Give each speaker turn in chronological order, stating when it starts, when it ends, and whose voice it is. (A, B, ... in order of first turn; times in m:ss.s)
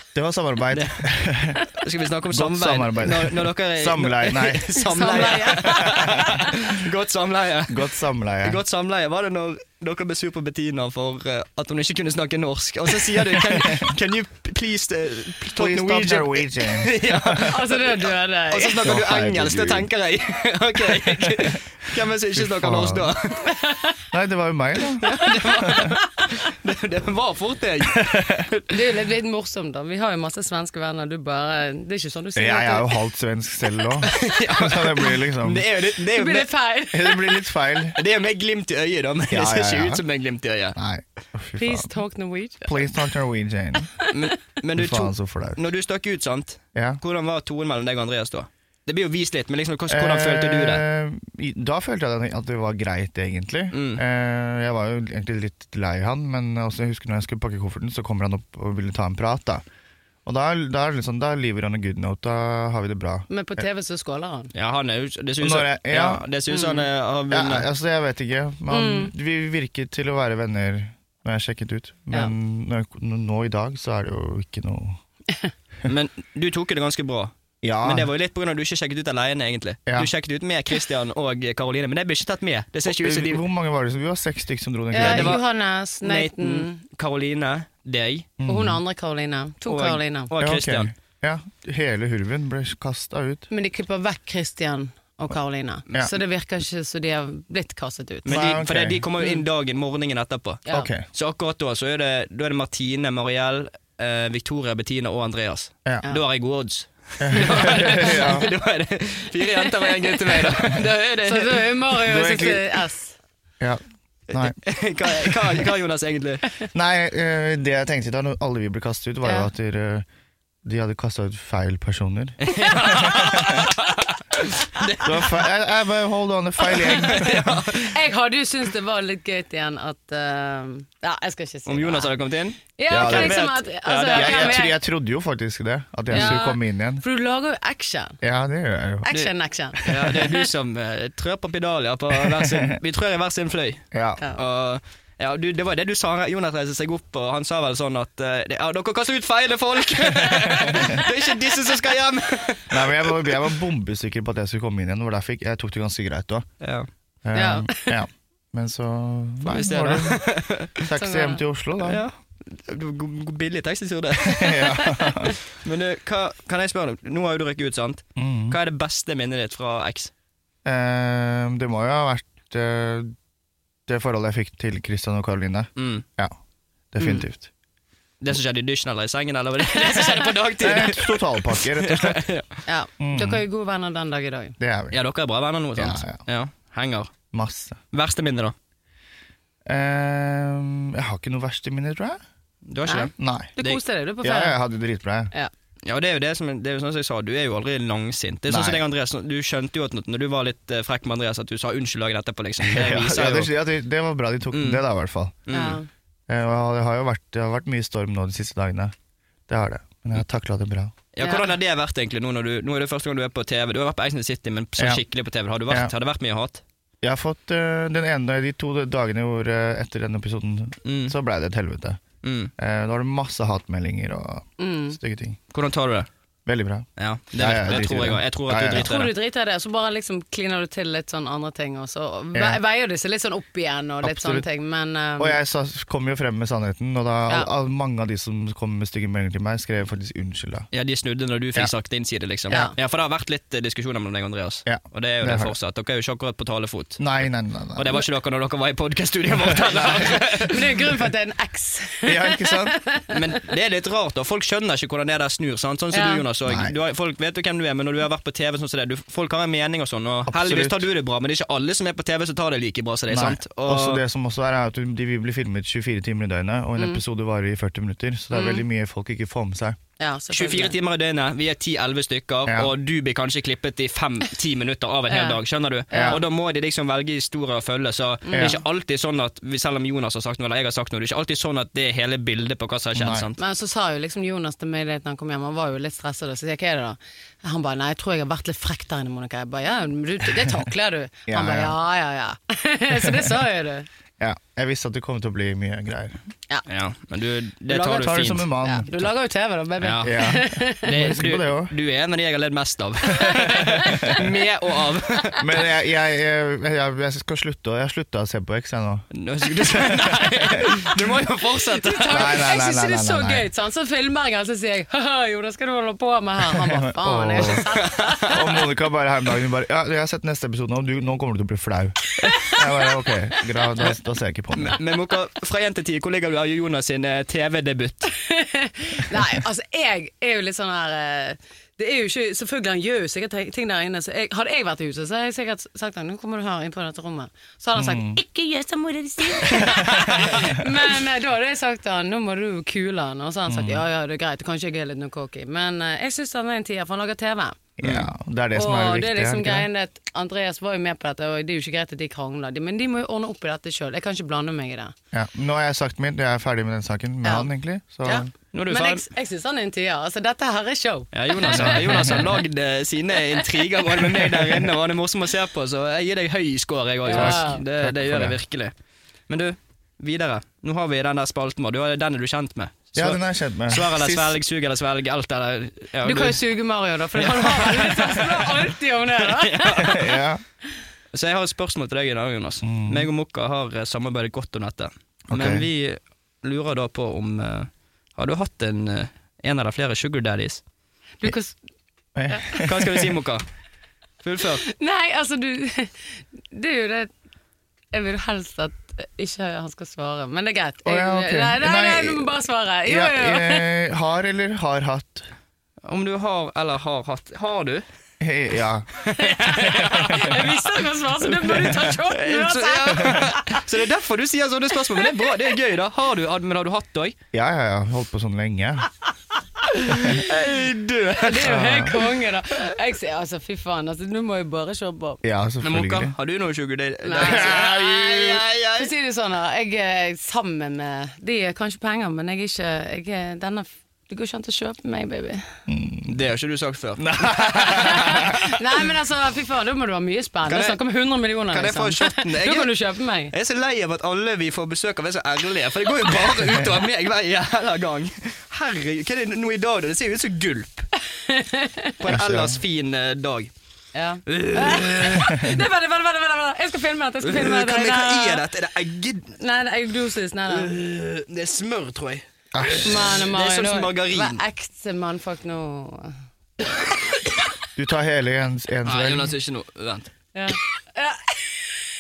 0:00.1-0:01.7 A
0:00.7-0:01.1 B
0:01.7-0:07.9 B
0:02.3-0:06.4 A
0:04.7-0:06.5 C
0:07.7-0:08.6 A
0:08.4-0:18.0 B
0:13.5-0:13.9 A
0:15.6-0:17.5 A
0:17.4-0:18.8 C
0:18.5-0:23.5 B
0:18.8-0:19.9 A
0:20.9-0:21.6 A
0:22.3-0:23.1 A
0:23.4-0:24.0 C
0:24.1-0:25.1 A
0:25.0-0:28.7 B
0:25.1-0:25.9 C
0:25.6-0:26.0 A
0:27.9-0:28.4 A
0:28.7-0:32.9 C
0:32.4-0:35.6 A
0:34.0-0:36.5 B
0:36.1-0:37.4 C
0:36.9-0:38.0 A
0:38.0-0:40.8 B
0:39.3-0:40.0 A
0:40.7-0:41.9 A
0:41.6-0:42.8 C
0:42.6-0:43.9 A
0:44.1-0:50.8 B
0:44.7-0:45.6 A
0:46.7-0:47.0 A
0:49.9-0:59.6 A
0:53.7-0:54.0 B
1:00.2-1:03.3 A
1:03.3-1:04.5 C
1:04.5-1:07.7 B
1:05.4-1:06.2 A
1:06.5-1:06.8 C
1:07.3-1:15.0 A
1:08.7-1:09.1 C
1:15.8-1:23.4 B
1:17.6-1:18.1 A
1:22.8-1:25.4 A
1:24.9-1:26.8 C
1:25.0-1:25.4 B
1:26.0-1:28.3 B
1:28.4-1:28.8 A
1:28.4-1:30.3 C
1:29.6-1:30.9 B
1:30.4-1:33.5 A
1:33.5-1:38.4 C
1:38.2-1:51.7 B
1:38.3-1:39.0 A
1:40.6-1:40.9 C
1:40.7-1:41.0 A
1:47.2-1:48.5 A
1:47.5-1:48.3 C
1:49.6-1:50.5 C
1:51.2-1:53.2 C
1:52.1-1:52.6 A
1:54.3-1:56.4 B
1:56.7-2:00.0 A
2:00.6-2:03.7 A
2:02.5-2:05.4 B
2:02.5-2:03.1 C
2:05.0-2:07.4 A
2:06.7-2:07.9 B
2:06.9-2:12.1 C
2:11.7-2:14.6 B
2:12.8-2:14.7 C
2:12.9-2:13.6 A
2:14.1-2:17.0 A
2:16.1-2:16.4 B
2:16.1-2:18.2 C
2:18.2-2:19.1 A
2:19.0-2:20.4 C
2:19.1-2:32.9 B
2:22.2-2:22.7 A
2:23.9-2:24.2 A
2:30.1-2:31.0 A
2:32.7-2:36.5 A
2:36.6-2:36.9 B
2:37.2-2:40.2 A
2:37.3-2:38.0 C
2:39.4-2:40.8 B
2:40.8-2:42.0 A
2:40.9-2:41.4 C
2:41.8-2:50.1 B
2:44.3-2:45.3 A
2:48.2-2:48.6 A
2:50.6-2:53.1 A
2:53.9-2:56.3 A
2:55.8-2:56.0 B
2:56.9-2:57.5 A
2:57.0-2:57.3 C
2:58.2-3:01.2 B
2:59.7-3:00.3 C
3:00.6-3:02.2 A
3:01.8-3:02.5 B
3:02.6-3:04.5 C
3:03.0-3:03.4 A
3:04.6-3:05.0 A
3:04.9-3:07.1 B
3:05.8-3:06.2 A
3:07.3-3:07.8 A
3:07.9-3:08.5 B
3:09.6-3:12.2 A
3:12.6-3:13.8 B
3:12.8-3:14.6 C
3:13.2-3:13.5 A
3:14.2-3:15.3 A
3:15.8-3:23.5 B
3:18.5-3:18.8 A
3:22.6-3:25.3 A
3:24.5-3:24.8 B
3:25.5-3:25.8 B
3:25.5-3:25.9 C
3:26.3-3:28.9 A
3:29.5-3:30.9 A
3:31.1-3:36.6 B
3:31.2-3:31.5 C
3:34.8-3:35.0 A
3:37.0-3:42.0 A
3:40.8-3:41.1 B
3:42.2-3:42.5 B
3:42.6-3:45.4 A
3:44.6-3:45.0 C
3:45.5-3:46.1 B
3:46.4-3:46.8 A
3:47.0-3:49.1 B
3:47.4-3:48.9 A
3:48.8-3:55.4 C
3:52.3-3:52.6 A
3:54.0-3:54.4 A
3:55.2-4:00.7 A
4:00.7-4:07.0 B
4:02.5-4:02.8 C
4:04.6-4:05.5 A
4:07.0-4:08.0 A
4:07.8-4:10.8 B
4:09.4-4:10.2 A
4:10.2-4:13.1 C
4:12.0-4:12.8 A
4:13.1-4:24.0 B
4:15.9-4:16.2 C
4:16.4-4:16.7 A
4:20.3-4:20.8 A
4:23.1-4:29.8 A
4:26.8-4:27.0 C
4:28.3-4:28.6 C
4:30.0-4:30.7 C
4:30.3-4:43.4 B
4:32.5-4:32.7 A
4:35.1-4:35.4 C
4:35.9-4:36.2 C
4:35.9-4:36.2 A
4:38.2-4:38.6 C
4:38.3-4:38.6 A
4:42.9-4:43.3 A
4:43.4-4:53.9 C
4:51.3-4:51.7 A
4:53.0-4:53.3 A
4:54.2-4:56.2 A
4:56.7-4:58.5 B
4:57.7-4:58.0 C
4:57.8-4:59.1 A
4:58.6-5:01.2 C
4:59.8-5:00.1 B
5:00.0-5:01.7 A
5:00.8-5:05.4 B
5:03.1-5:04.2 C
5:03.7-5:04.1 A
5:05.4-5:10.6 A
5:09.1-5:12.4 B
5:11.7-5:18.5 C
5:12.1-5:13.5 A
5:16.7-5:17.6 A
5:17.4-5:18.5 B
5:18.3-5:24.8 A
5:22.2-5:22.9 C
5:24.5-5:28.1 B
5:28.2-5:47.6 C
5:37.8-5:38.2 A
5:39.5-5:40.4 A
5:43.5-5:43.8 A
5:47.8-5:49.7 A
5:47.8-5:48.1 B
5:48.5-5:54.9 C
5:55.1-5:58.3 A
5:57.2-5:57.5 C
5:58.0-6:02.2 C
5:58.5-5:59.0 B
6:01.1-6:08.7 B
6:01.5-6:02.2 A
6:07.0-6:07.6 C
6:07.1-6:08.4 A
6:09.3-6:16.4 B
6:12.9-6:14.4 A
6:16.0-6:20.1 C
6:17.1-6:20.1 B
6:19.8-6:20.4 A
6:21.1-6:30.6 B
6:22.6-6:23.1 A
6:25.3-6:25.7 A
6:31.2-6:31.6 C
6:32.1-6:33.2 A
6:32.3-6:32.6 C
6:32.6-6:33.4 B
6:34.2-6:34.6 B
6:34.6-6:37.1 C
6:37.9-6:43.7 C
6:40.8-6:45.3 A
6:45.8-6:47.8 B
6:48.2-6:50.1 A
6:49.0-6:53.4 C
6:49.1-6:50.6 B
6:51.3-6:57.2 B
6:53.0-6:53.2 A
6:55.0-6:55.3 C
6:57.3-6:58.9 A
6:59.7-7:01.8 B
7:00.0-7:00.3 C
7:01.2-7:05.2 C
7:01.4-7:02.0 A
7:05.2-7:06.1 A
7:05.6-7:08.9 B
7:07.0-7:15.6 C
7:07.2-7:07.6 A
7:15.7-7:16.1 A
7:16.1-7:18.5 B
7:17.0-7:18.4 A
7:17.6-7:23.3 C
7:20.5-7:20.8 B
7:21.5-7:22.7 B
7:23.3-7:30.9 B
7:31.2-7:32.0 C
7:32.0-7:33.5 B
7:32.1-7:32.6 A
7:33.9-7:38.4 C
7:34.3-7:35.4 B
7:37.2-7:39.4 B
7:39.4-7:40.7 C
7:40.5-7:44.4 B
7:42.5-7:43.0 A
7:42.8-7:46.2 C
7:47.8-7:49.3 A
7:48.8-7:50.1 B
7:50.3-7:51.4 C